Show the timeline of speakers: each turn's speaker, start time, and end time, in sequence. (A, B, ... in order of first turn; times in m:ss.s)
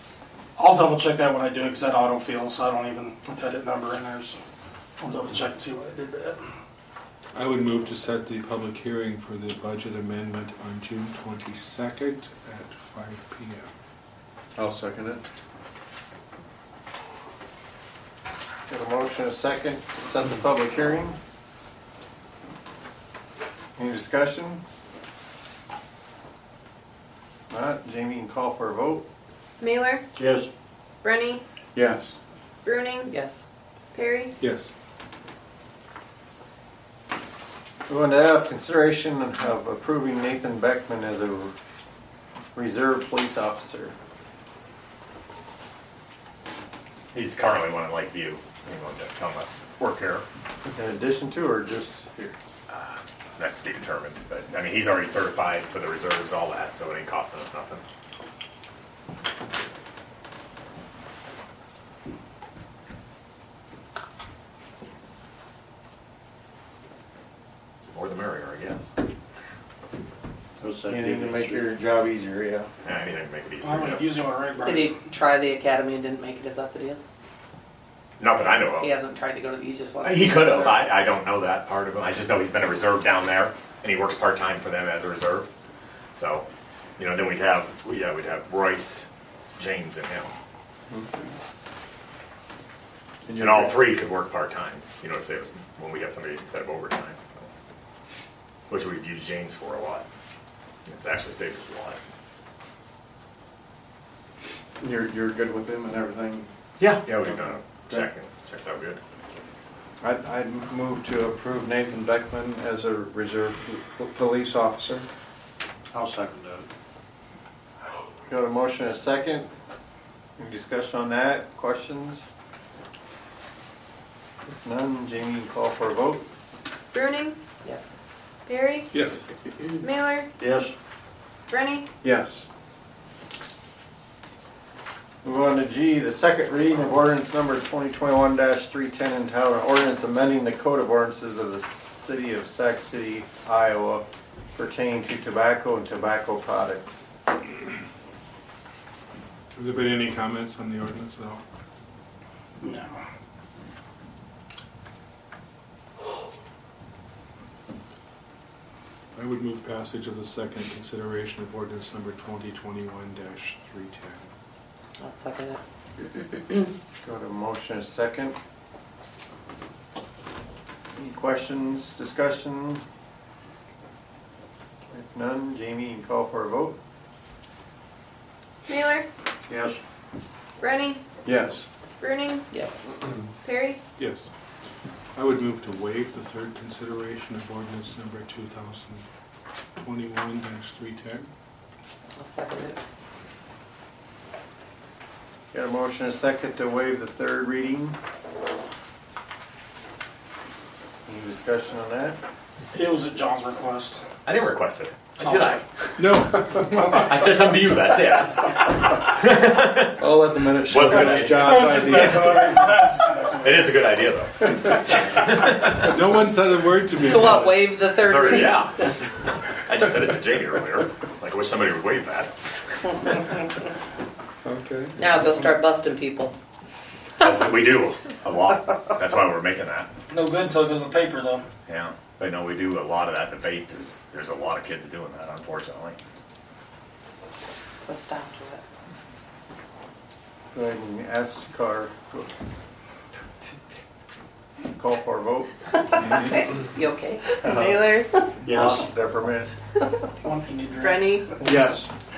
0:00.6-0:04.4 A
0:05.0-0:06.6 A
0:07.3-0:13.7 B
0:14.6-0:15.2 C
0:18.7-0:21.2 D
0:23.8-0:24.6 D
0:27.5-0:29.1 D
0:29.6-0:30.0 E
0:30.2-0:30.5 F
0:31.0-0:31.4 E
0:31.8-0:32.2 C
0:32.6-0:33.1 E
0:33.1-0:33.4 G
0:33.9-0:34.3 E
0:34.4-0:34.7 B
0:37.9-0:41.6 D
0:42.6-0:44.0 D
0:47.1-0:50.2 H
0:50.7-0:52.4 D
0:52.7-0:57.8 H
1:07.9-1:08.9 H
1:10.6-1:11.7 F
1:10.9-1:12.7 D
1:12.8-1:14.1 H
1:13.6-1:15.0 A
1:14.6-1:17.0 G
1:18.2-1:18.9 H
1:18.8-1:20.9 G
1:20.0-1:25.5 H
1:26.1-1:26.5 H
1:27.0-1:30.3 H
1:30.9-1:31.3 C
1:33.3-1:33.9 C
1:33.4-1:37.5 H
1:38.7-1:40.1 H
1:40.9-1:42.0 H
1:44.8-1:46.5 C
1:46.8-1:49.0 H
1:50.0-1:55.1 C
1:55.9-1:56.7 F
1:58.3-1:59.5 D
2:00.4-2:02.3 D
2:04.6-2:06.2 D
2:06.9-2:07.4 E
2:07.6-2:07.9 G
2:08.5-2:09.0 E
2:08.9-2:09.3 B
2:09.8-2:10.3 E
2:10.4-2:10.7 F
2:11.5-2:11.9 E
2:12.0-2:12.4 C
2:15.2-2:27.1 D
2:29.6-2:31.4 B
2:32.6-2:33.0 A
2:39.2-2:44.3 B
2:45.0-2:45.6 G
2:46.2-2:46.6 G
2:47.0-2:48.4 D
2:51.0-2:52.8 D
2:54.9-2:56.8 D
2:58.7-2:59.1 E
2:59.5-2:59.8 F
3:00.6-3:01.0 E
3:01.2-3:01.7 C
3:02.0-3:02.5 E
3:02.5-3:02.9 G
3:03.4-3:03.8 E
3:04.0-3:04.3 B
3:05.2-3:09.0 B
3:09.8-3:11.3 B
3:12.2-3:12.8 G
3:15.5-3:18.0 D
3:21.0-3:22.2 D
3:22.7-3:24.1 A
3:24.2-3:25.6 H
3:25.2-3:25.6 A
3:26.0-3:27.0 B
3:26.4-3:30.0 H
3:30.0-3:32.6 C
3:30.7-3:32.4 H
3:30.8-3:33.8 A
3:33.4-3:36.0 H
3:35.7-3:37.7 B
3:37.0-3:38.7 G
3:38.0-3:42.3 H
3:44.5-3:44.8 C
3:44.6-3:44.9 D
3:45.0-3:46.3 G
3:47.2-3:49.9 H
3:50.1-3:51.5 A
3:51.7-3:56.0 H
3:57.9-3:58.6 G
4:00.5-4:02.3 D
4:04.7-4:05.5 D
4:06.0-4:07.5 G
4:07.2-4:08.2 E
4:07.4-4:07.9 D
4:08.4-4:08.9 F
4:08.4-4:09.5 D
4:10.2-4:11.6 A
4:10.8-4:11.3 E
4:11.4-4:11.9 C